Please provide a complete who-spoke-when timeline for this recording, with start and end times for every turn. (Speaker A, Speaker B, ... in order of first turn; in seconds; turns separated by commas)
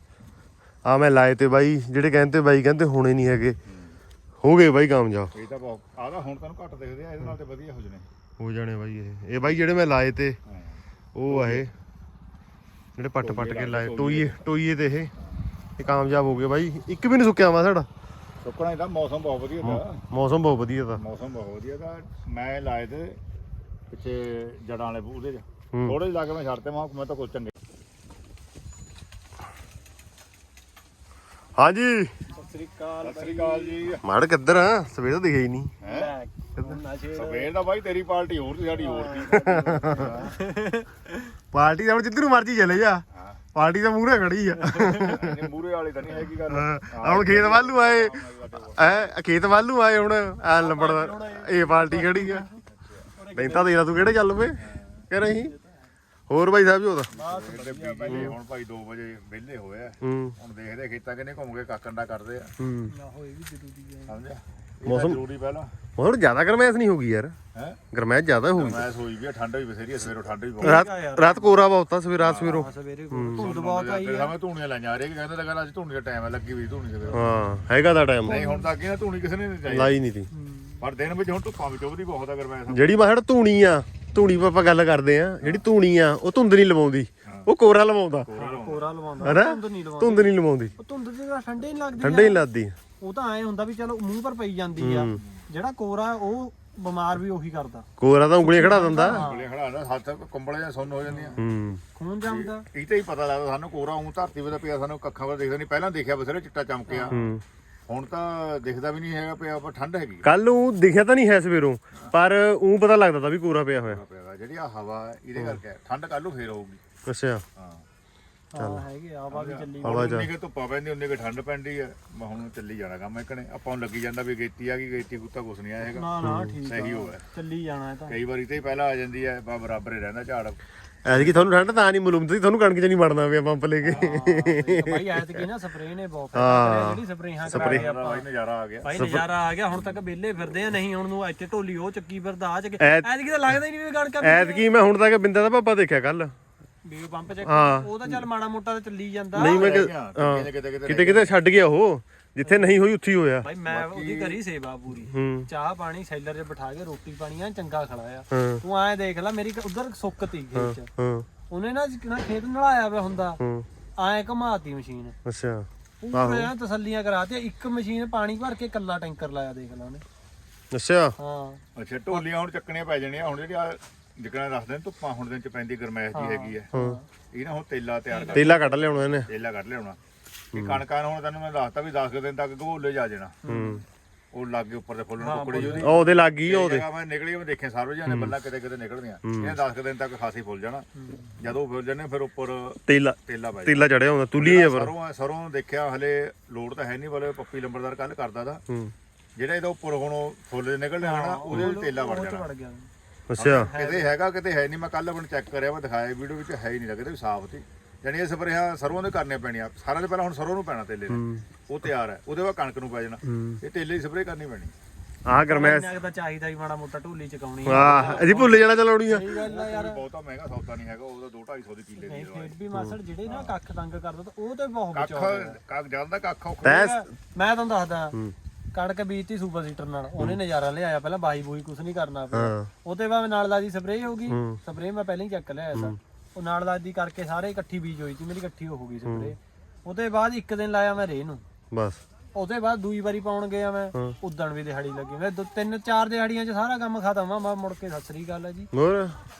Speaker A: 0.8-3.6, Speaker B: 3.7-4.0, Speaker A: 4.4-5.3, Speaker B: 5.3-8.1, Speaker A: 8.4-10.4, Speaker B: 10.5-11.7, Speaker A: 11.1-11.7, Speaker A: 12.9-15.1, Speaker B: 13.2-14.4, Speaker B: 15.2-15.5, Speaker A: 15.8-17.9, Speaker B: 18.4-20.0, Speaker A: 19.6-21.0, Speaker B: 20.9-23.2, Speaker B: 23.9-27.5, Speaker A: 31.6-32.1, Speaker C: 32.3-33.8, Speaker B: 33.0-34.0, Speaker A: 34.0-35.7, Speaker B: 35.8-36.1, Speaker C: 35.8-37.5, Speaker B: 37.1-40.4, Speaker C: 38.7-41.3, Speaker A: 39.3-40.1, Speaker A: 41.5-43.0, Speaker B: 43.1-43.4, Speaker A: 43.5-45.4, Speaker C: 44.6-45.2, Speaker B: 45.0-49.1, Speaker A: 46.5-48.1, Speaker A: 48.8-52.5, Speaker C: 50.6-52.6, Speaker B: 52.7-53.1, Speaker C: 53.1-53.8, Speaker A: 53.3-54.6, Speaker B: 54.6-55.1, Speaker A: 55.1-55.5, Speaker C: 55.3-55.9, Speaker A: 56.3-57.1, Speaker B: 57.1-62.5, Speaker C: 57.1-58.3, Speaker A: 58.1-58.4, Speaker A: 60.0-60.3, Speaker A: 62.6-62.9, Speaker C: 62.9-64.2, Speaker B: 64.1-65.7, Speaker A: 64.8-65.2, Speaker A: 66.0-67.3, Speaker B: 67.5-67.8, Speaker A: 67.9-68.9, Speaker B: 68.5-70.9, Speaker C: 70.6-71.7, Speaker A: 70.6-73.5, Speaker B: 72.2-72.7, Speaker C: 72.4-74.3, Speaker B: 73.3-77.2, Speaker A: 77.1-78.4, Speaker B: 78.2-80.0, Speaker C: 78.2-78.7, Speaker A: 79.7-80.3, Speaker C: 80.3-80.8, Speaker B: 80.8-83.1, Speaker A: 82.7-88.3, Speaker B: 85.4-85.7, Speaker B: 87.2-87.5, Speaker B: 88.2-89.0, Speaker C: 88.3-92.4, Speaker A: 89.2-90.7, Speaker A: 92.0-92.8, Speaker C: 93.0-97.8, Speaker A: 94.8-95.2, Speaker B: 95.2-95.4, Speaker A: 98.0-99.3, Speaker C: 98.4-99.5, Speaker B: 99.0-101.4, Speaker C: 101.1-101.4, Speaker A: 101.4-101.8, Speaker C: 101.9-102.7, Speaker B: 102.2-107.1, Speaker C: 106.9-107.3, Speaker A: 107.1-107.4, Speaker B: 107.9-110.2, Speaker A: 110.2-114.0, Speaker B: 113.8-116.8, Speaker A: 117.0-117.4, Speaker B: 117.5-117.8, Speaker C: 118.5-120.1, Speaker A: 118.6-118.8, Speaker B: 119.3-126.1, Speaker A: 119.8-120.3, Speaker C: 125.8-128.2, Speaker A: 126.2-126.6, Speaker B: 126.7-127.2, Speaker B: 128.1-131.4, Speaker A: 131.0-135.5, Speaker B: 133.8-134.1, Speaker C: 133.8-138.2, Speaker A: 136.3-137.8, Speaker B: 137.5-138.9, Speaker C: 138.8-144.7, Speaker A: 138.9-139.3, Speaker A: 142.8-143.1, Speaker A: 144.2-146.3, Speaker C: 146.8-149.7, Speaker A: 147.4-148.2, Speaker A: 149.3-153.5, Speaker B: 149.4-151.3, Speaker C: 152.4-152.8, Speaker C: 153.4-160.9, Speaker B: 153.7-154.4, Speaker A: 154.9-155.5, Speaker A: 158.3-158.6, Speaker A: 160.5-161.3, Speaker C: 161.5-163.4, Speaker A: 163.4-163.7, Speaker C: 164.0-165.2, Speaker A: 165.2-166.5, Speaker C: 166.0-170.0, Speaker A: 170.7-171.2, Speaker C: 171.2-172.2, Speaker B: 171.7-176.7, Speaker C: 176.1-177.1, Speaker A: 176.7-177.0, Speaker B: 177.3-178.6, Speaker C: 178.1-179.0, Speaker A: 178.3-179.3, Speaker B: 179.2-180.0, Speaker B: 180.5-183.4, Speaker A: 180.5-180.8, Speaker C: 183.4-183.8, Speaker A: 183.4-183.8, Speaker B: 184.3-190.9, Speaker C: 185.2-186.0, Speaker A: 185.6-186.8, Speaker A: 188.1-188.3, Speaker A: 189.2-189.5, Speaker C: 190.9-191.4, Speaker B: 191.4-198.6, Speaker A: 192.9-194.9, Speaker B: 199.3-202.5, Speaker C: 201.0-202.9, Speaker A: 201.5-201.7, Speaker A: 203.3-203.7, Speaker B: 203.4-214.7, Speaker C: 203.6-204.1, Speaker A: 211.1-211.4, Speaker A: 213.2-213.6, Speaker A: 215.3-215.9, Speaker C: 215.5-220.0, Speaker A: 217.7-219.3, Speaker B: 217.7-218.6, Speaker B: 219.3-222.5, Speaker C: 222.0-225.6, Speaker B: 223.2-223.5, Speaker B: 224.9-226.8, Speaker A: 226.6-227.1, Speaker C: 226.6-228.2, Speaker C: 228.7-241.4, Speaker A: 232.3-232.7, Speaker A: 234.3-234.6, Speaker A: 239.0-239.3, Speaker A: 241.7-242.0, Speaker C: 242.3-248.7, Speaker A: 248.7-249.2